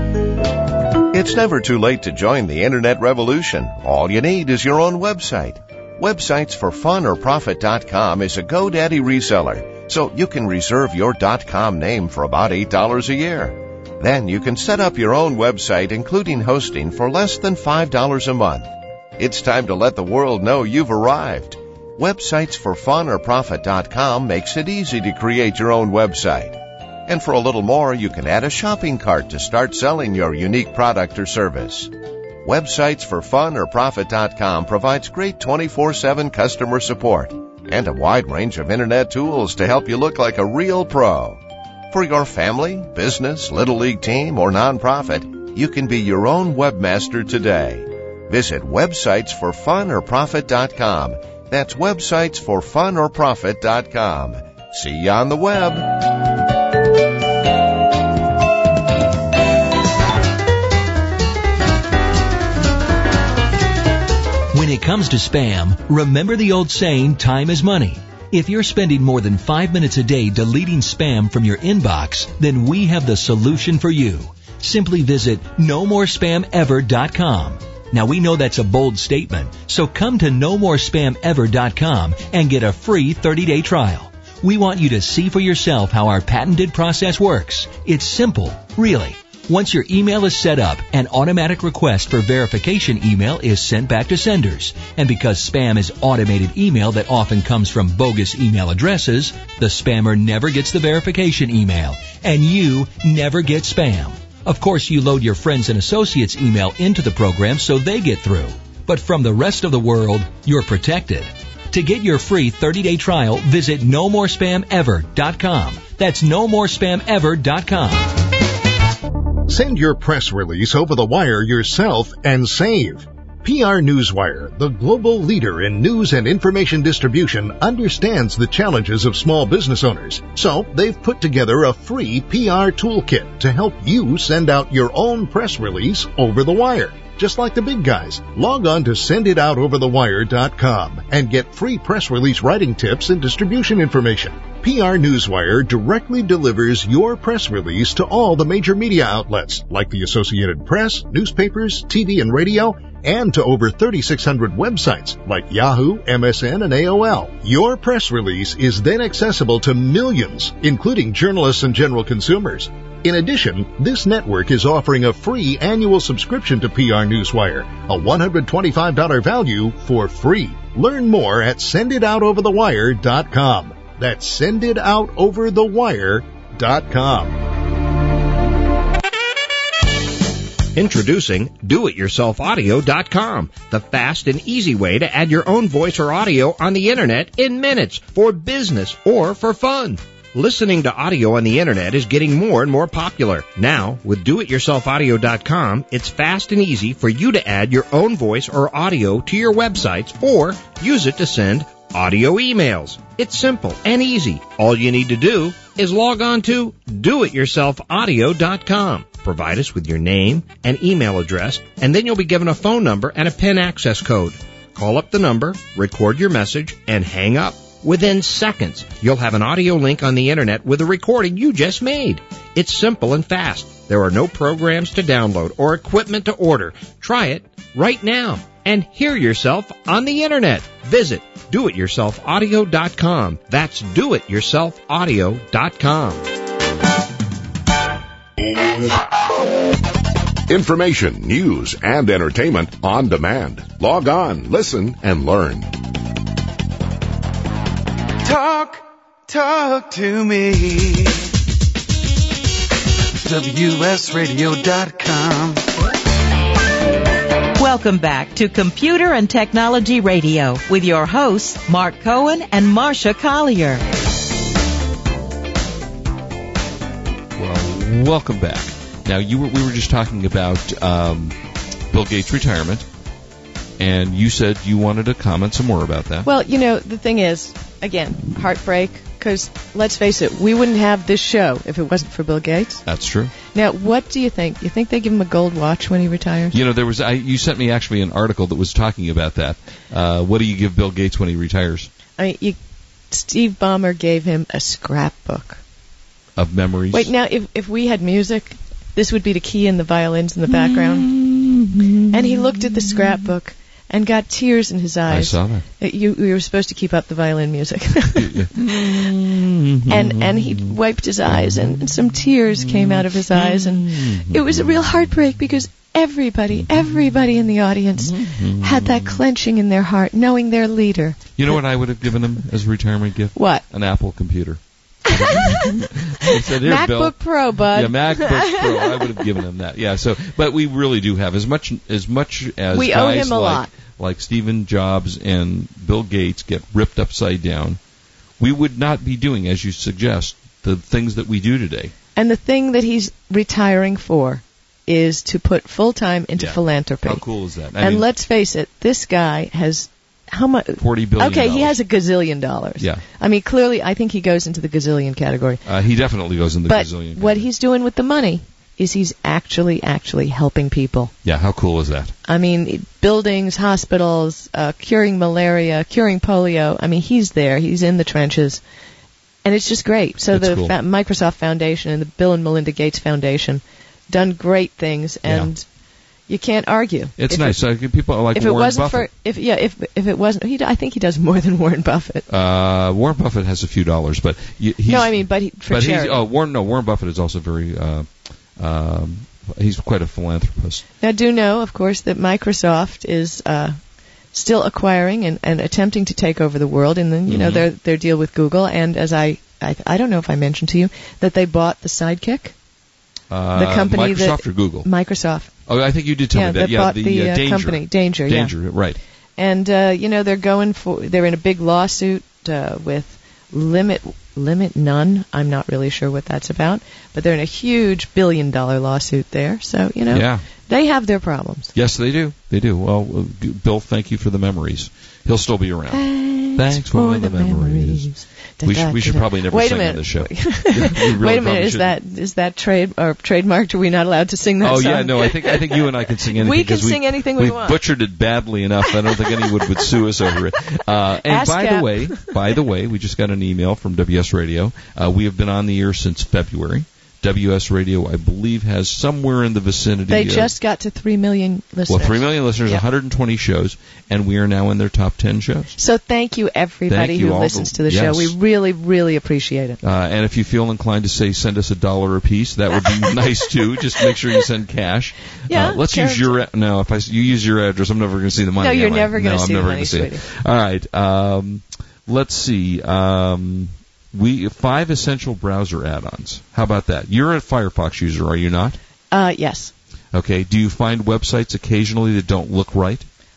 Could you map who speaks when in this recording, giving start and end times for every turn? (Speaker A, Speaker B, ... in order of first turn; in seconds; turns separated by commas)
Speaker A: 1.1-31.9, Speaker A: 32.4-56.1, Speaker B: 64.5-118.2, Speaker C: 119.5-177.4, Speaker D: 180.8-236.3, Speaker E: 240.5-245.8, Speaker F: 248.2-251.3, Speaker F: 253.2-255.7, Speaker G: 257.6-263.8, Speaker H: 267.4-271.4, Speaker H: 271.9-272.9, Speaker H: 273.8-276.3, Speaker I: 276.2-282.8, Speaker H: 282.9-283.3, Speaker I: 283.5-286.6, Speaker H: 286.5-291.9, Speaker I: 292.2-292.6, Speaker I: 293.1-295.6, Speaker H: 296.4-297.1, Speaker I: 296.9-301.1, Speaker H: 300.5-303.3, Speaker I: 302.1-309.1, Speaker H: 305.1-305.7, Speaker H: 308.2-310.7, Speaker I: 309.9-321.2, Speaker H: 311.3-311.8, Speaker H: 312.6-315.1, Speaker H: 318.0-319.2, Speaker H: 321.4-337.8, Speaker I: 323.4-323.6, Speaker I: 325.1-329.3, Speaker I: 332.7-333.7, Speaker H: 338.4-341.9, Speaker I: 342.2-347.2, Speaker H: 346.4-348.1, Speaker I: 347.8-355.6, Speaker H: 350.8-351.8, Speaker H: 355.6-357.5, Speaker I: 356.7-361.1, Speaker H: 361.2-362.1, Speaker I: 362.3-368.6, Speaker I: 369.4-375.6, Speaker H: 370.3-370.7, Speaker I: 376.3-377.6, Speaker H: 377.2-379.1, Speaker I: 378.3-382.3, Speaker H: 382.3-390.8, Speaker I: 384.9-386.2, Speaker I: 391.0-393.8, Speaker I: 394.3-402.5, Speaker H: 397.3-397.6, Speaker H: 403.3-404.9, Speaker I: 403.6-405.5, Speaker H: 405.7-409.0, Speaker I: 406.3-408.5, Speaker I: 409.4-421.7, Speaker H: 420.1-420.4, Speaker H: 421.8-426.0, Speaker I: 425.9-437.8, Speaker H: 426.6-431.9, Speaker H: 434.6-450.5, Speaker I: 439.1-439.9, Speaker I: 441.2-442.3, Speaker I: 450.1-452.8, Speaker H: 451.9-455.7, Speaker I: 455.8-459.8, Speaker H: 456.9-458.3, Speaker H: 459.8-478.8, Speaker I: 465.5-466.4, Speaker I: 468.6-470.2, Speaker I: 479.1-479.7, Speaker H: 480.1-483.1